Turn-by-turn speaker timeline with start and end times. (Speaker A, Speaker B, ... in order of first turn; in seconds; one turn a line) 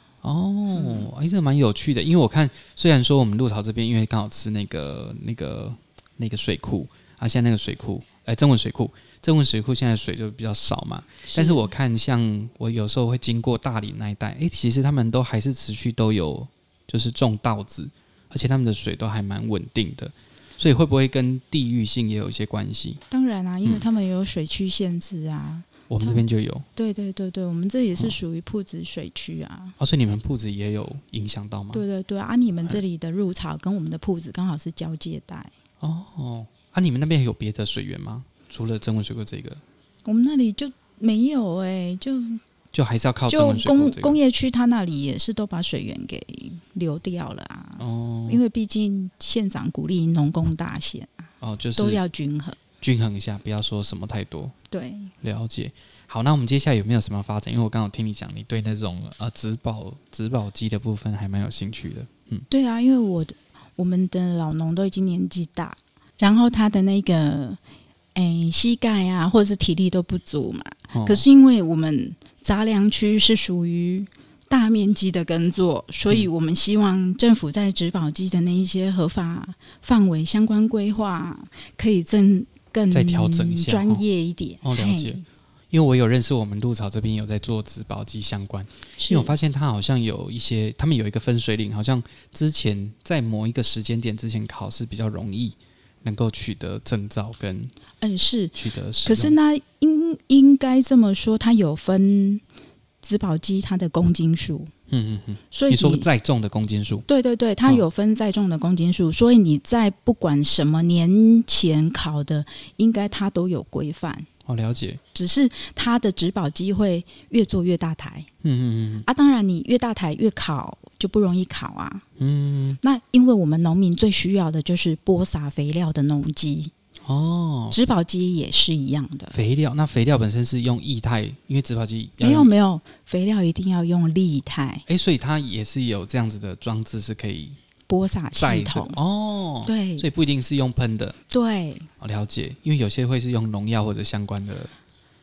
Speaker A: 0.2-23.0
Speaker B: 0.7-1.1
Speaker B: 11.2-11.7
Speaker B: 23.1-26.2
Speaker A: 25.9-26.6
Speaker B: 26.8-29.8
Speaker A: 29.8-31.8
Speaker B: 31.7-35.5
Speaker A: 35.8-39.6
Speaker B: 40.0-42.4
Speaker A: 42.7-44.2
Speaker B: 43.3-52.6
Speaker A: 47.8-48.4
Speaker A: 51.4-52.0
Speaker A: 52.8-54.5
Speaker B: 54.7-55.1
Speaker A: 55.2-62.5
Speaker B: 62.5-67.6
Speaker B: 68.1-85.2
Speaker A: 70.9-71.2
Speaker A: 82.9-84.0
Speaker A: 84.6-85.2
Speaker A: 85.7-97.7
Speaker B: 89.0-89.3
Speaker B: 98.0-102.4
Speaker A: 98.5-99.3
Speaker B: 103.0-104.7
Speaker A: 104.9-107.0
Speaker B: 105.5-106.1
Speaker B: 107.1-114.3
Speaker A: 114.5-115.0
Speaker B: 115.1-118.3
Speaker A: 118.4-119.0
Speaker B: 119.0-122.0
Speaker A: 122.2-122.8
Speaker B: 122.8-126.7
Speaker A: 127.0-127.8
Speaker B: 127.7-129.3
Speaker A: 129.3-132.5
Speaker B: 132.2-134.8
Speaker A: 134.9-137.6
Speaker B: 137.9-139.0
Speaker A: 138.3-141.2
Speaker B: 139.6-140.1
Speaker B: 141.3-141.9
Speaker A: 142.0-144.7